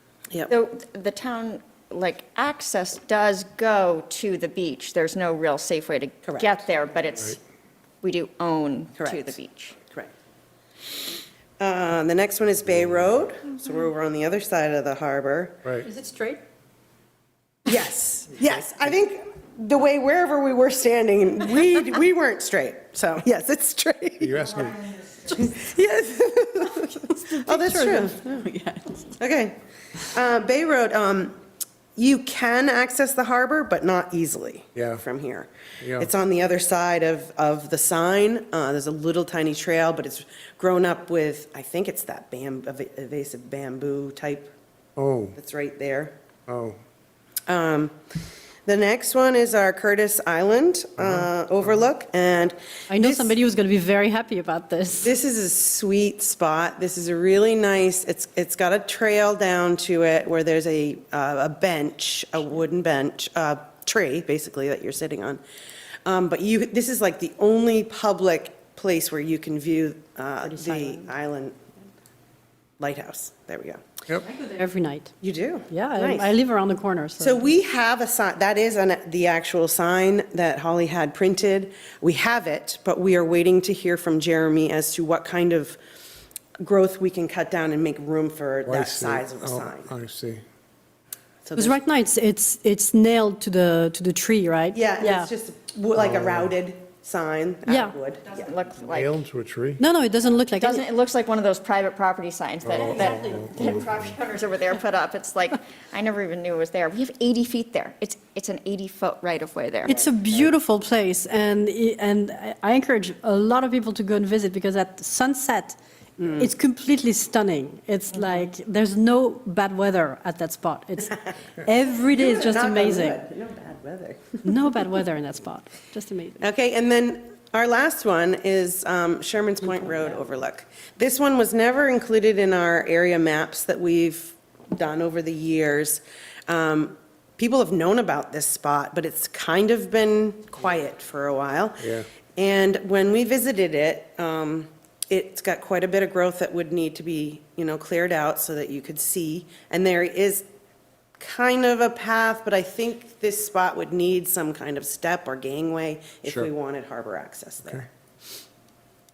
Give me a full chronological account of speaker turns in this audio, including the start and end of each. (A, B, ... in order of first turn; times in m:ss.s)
0:00.5-0:07.4 A
0:06.2-0:06.6 B
0:08.0-0:09.8 A
0:09.0-0:09.4 B
0:11.6-0:15.6 B
0:15.8-0:16.4 C
0:17.7-0:24.6 B
0:24.2-0:24.9 D
0:25.2-0:28.4 B
0:27.1-0:29.2 C
0:29.2-0:31.4 B
0:32.0-0:44.5 B
0:34.8-0:35.0 D
0:35.8-0:36.1 D
0:45.0-0:45.4 D
0:45.4-0:46.2 B
0:46.5-0:46.8 D
0:47.5-0:48.0 B
0:48.7-0:53.4 B
0:51.0-0:51.3 D
0:52.9-0:55.1 C
0:55.0-1:05.4 B
1:06.0-1:11.6 B
1:10.4-1:11.1 C
1:12.8-1:13.8 B
1:14.2-1:15.1 C
1:15.2-1:16.4 B
1:15.7-1:17.5 C
1:17.2-1:25.8 B
1:26.6-1:29.9 B
1:28.7-1:30.4 D
1:31.4-1:31.8 B
1:31.6-1:35.3 C
1:34.7-1:38.5 B
1:36.0-1:36.5 D
1:37.7-1:38.0 C
1:38.3-1:39.1 A
1:38.9-1:39.8 D
1:39.8-1:40.8 C
1:40.5-1:50.1 A
1:42.6-1:44.0 D
1:42.8-1:43.8 C
1:49.8-2:03.2 C
1:56.2-1:56.5 B
2:02.1-2:04.5 B
2:04.4-2:06.4 C
2:06.4-2:30.5 B
2:21.8-2:22.1 D
2:31.2-2:37.9 B